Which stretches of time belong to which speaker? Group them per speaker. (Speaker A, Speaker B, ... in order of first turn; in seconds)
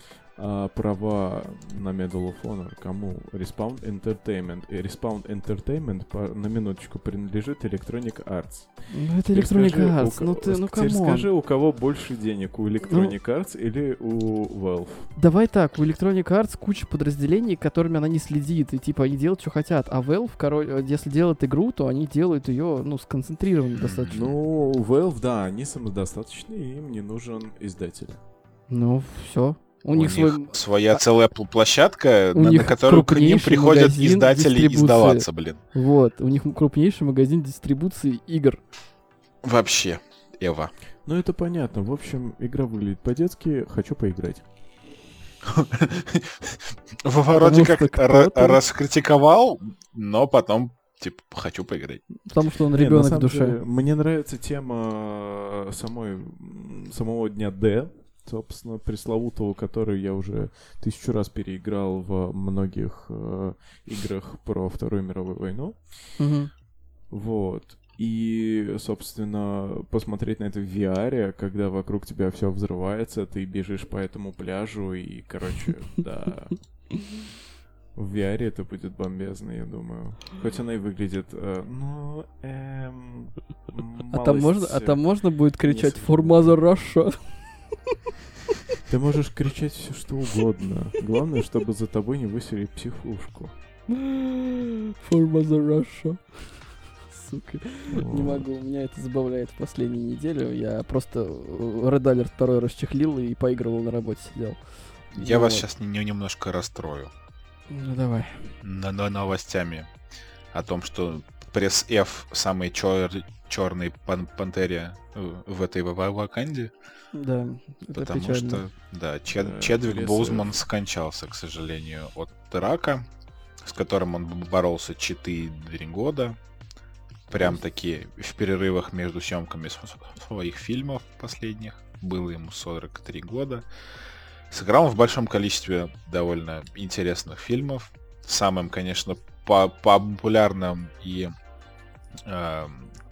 Speaker A: 0.4-15.1, 24.1-28.2, 41.0-44.5, 52.7-66.3, 67.1-77.1, 77.9-86.7, 88.8-93.6, 97.9-98.5, 119.3-120.6
Speaker B: 8.9-11.3, 12.8-13.2, 15.1-24.2, 28.7-31.0, 32.3-38.6, 47.4-48.6, 52.2-53.6, 66.2-66.5, 84.1-87.9, 95.0-105.6, 107.7-108.5, 117.1-118.6
Speaker C: 23.8-24.4, 29.9-35.6, 39.4-40.7, 45.5-52.2, 105.1-107.1, 108.6-109.9, 110.5-116.7, 117.9-123.1, 123.6-126.4, 127.3-133.6, 134.5-141.3, 142.2-142.9